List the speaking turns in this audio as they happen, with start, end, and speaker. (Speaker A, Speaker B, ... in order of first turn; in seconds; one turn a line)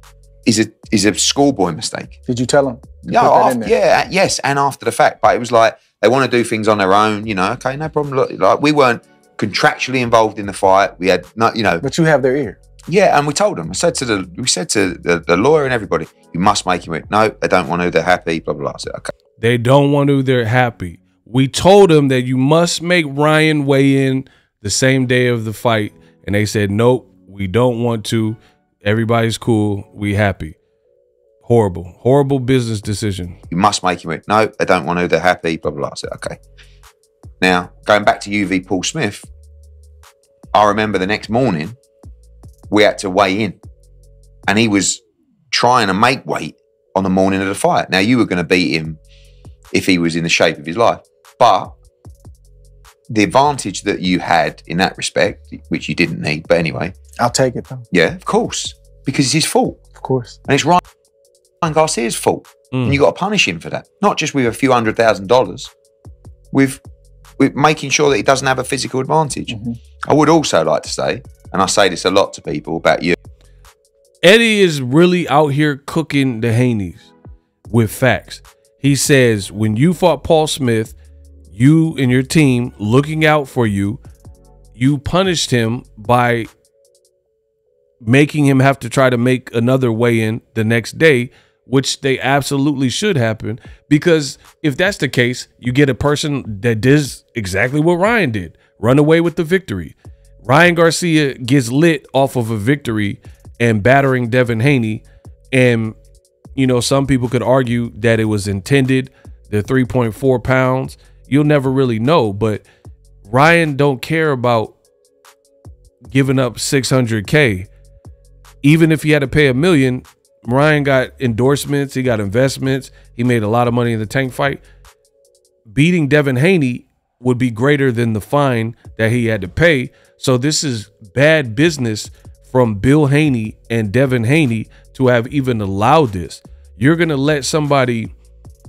Speaker A: 0.5-2.2
Speaker B: 2.3-3.7
Speaker A: 3.1-11.8
Speaker B: 11.8-12.6
Speaker A: 12.9-19.1
Speaker C: 19.4-30.6
Speaker C: 31.4-33.4
Speaker A: 33.5-36.4
Speaker A: 37.4-39.3
Speaker A: 40.5-41.8
Speaker A: 42.7-43.6
Speaker A: 44.5-49.0
Speaker A: 49.7-51.8
Speaker A: 53.1-57.0
Speaker B: 57.2-57.9
Speaker A: 57.9-59.8
Speaker B: 60.0-60.4
Speaker A: 60.5-60.8
Speaker A: 61.6-65.7
Speaker A: 66.5-66.8
Speaker A: 67.4-69.5
Speaker B: 69.5-69.8
Speaker A: 70.1-73.2
Speaker C: 74.2-77.1
Speaker C: 77.7-81.0
Speaker C: 81.5-84.0
Speaker C: 84.8-86.5
Speaker C: 88.0-106.0
Speaker C: 106.6-112.7
Speaker C: 113.2-114.8
Speaker C: 116.1-117.7
Speaker C: 118.6-124.6
Speaker C: 125.7-138.1